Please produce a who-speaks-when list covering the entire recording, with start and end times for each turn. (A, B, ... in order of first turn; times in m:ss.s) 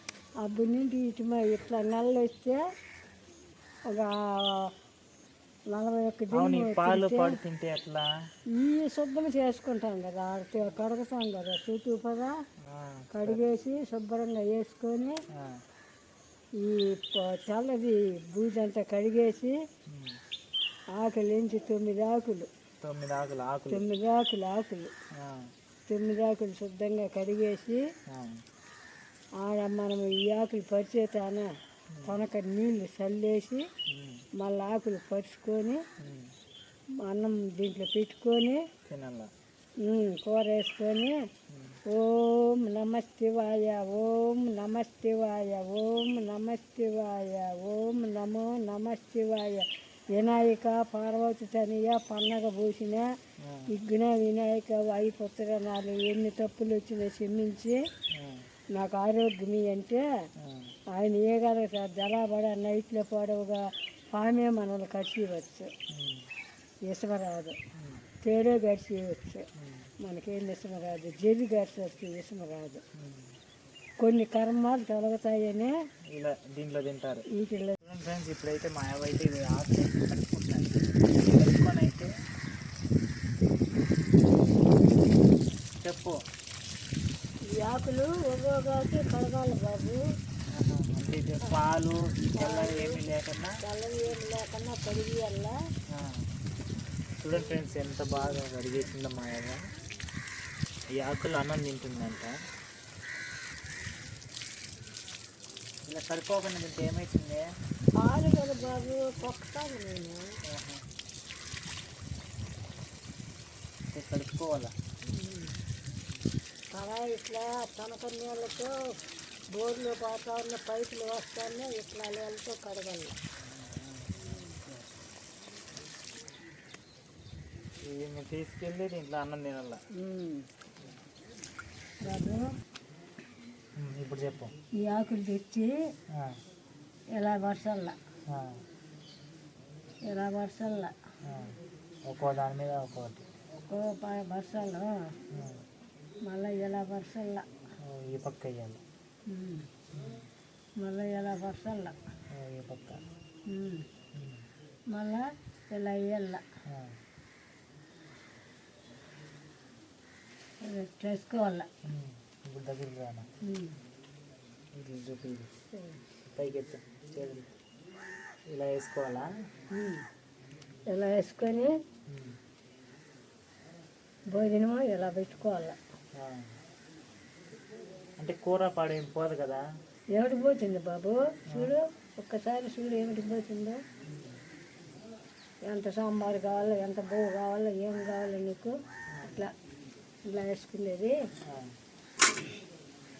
0:00.4-0:02.6 A
0:03.9-0:04.7 A
0:05.7-0:07.4 A
0:06.3-0:08.0 B
0:08.5-0:12.3 A
0:12.6-0:13.4 B
0:13.1-0:15.2 A
0:16.6-0:19.5 A
0:19.9-0:20.2 B
0:20.9-0:22.5 A
0:22.8-0:23.8 B
0:23.7-0:24.9 A
0:25.2-0:25.4 B
0:25.9-0:27.8 A
0:28.1-0:28.4 B
0:29.4-0:31.5 A
0:32.0-0:33.6 A
0:33.9-0:34.2 B
0:34.4-0:35.8 A
0:36.0-0:36.3 B
0:37.0-0:38.6 A
0:38.9-0:39.3 B
0:39.8-0:41.1 A
0:41.5-0:41.8 B
0:41.9-0:53.0 A
0:53.4-0:53.7 B
0:53.7-0:57.8 A
0:58.1-0:58.4 B
0:58.7-1:00.0 A
1:00.4-1:00.7 B
1:00.9-1:05.7 A
1:05.9-1:06.2 B
1:06.9-1:07.6 A
1:07.8-1:08.0 B
1:08.2-1:09.4 A
1:09.6-1:09.9 B
1:10.0-1:12.8 A
1:13.0-1:13.3 B
1:14.0-1:15.7 A
1:16.1-1:17.2 B
1:17.3-1:17.8 A
1:17.8-1:22.1 B
1:25.8-1:26.2 B
1:27.5-1:30.0 A
1:30.5-1:33.5 B
1:32.4-1:33.0 A
1:33.6-1:35.5 A
1:35.9-1:36.2 B
1:37.2-1:39.6 B
1:41.0-1:42.3 B
1:45.8-1:47.4 B
1:48.0-1:50.2 A
1:50.5-1:50.8 B
1:53.9-1:54.7 B
1:55.1-1:55.6 A
1:56.7-1:58.7 A
1:59.5-2:03.1 A
2:03.4-2:04.8 B
2:07.8-2:09.8 B
2:10.0-2:10.4 A
2:12.0-2:12.4 A
2:13.8-2:14.5 B
2:14.8-2:15.7 A
2:17.2-2:18.0 A
2:20.1-2:20.9 A
2:21.2-2:21.5 B
2:22.1-2:23.2 B
2:23.6-2:24.9 A
2:25.3-2:25.6 B
2:26.2-2:27.4 A
2:27.8-2:28.8 B
2:29.3-2:29.6 A
2:29.9-2:30.2 B
2:30.8-2:32.0 A
2:32.3-2:33.0 B
2:33.5-2:33.8 A
2:34.1-2:34.4 B
2:34.9-2:36.4 A
2:36.7-2:36.9 B
2:40.6-2:41.7 A
2:41.8-2:43.3 B
2:43.4-2:43.8 A
2:44.7-2:45.5 B
2:46.2-2:47.5 B
2:48.5-2:49.3 B
2:49.7-2:50.0 A
2:50.9-2:51.7 A
2:52.1-2:52.3 B
2:54.3-2:55.8 A
2:56.1-2:56.5 B
2:58.2-2:59.6 B
3:00.1-3:03.8 A
3:04.0-3:04.3 B
3:05.6-3:09.5 A
3:09.2-3:09.4 B
3:10.2-3:11.1 A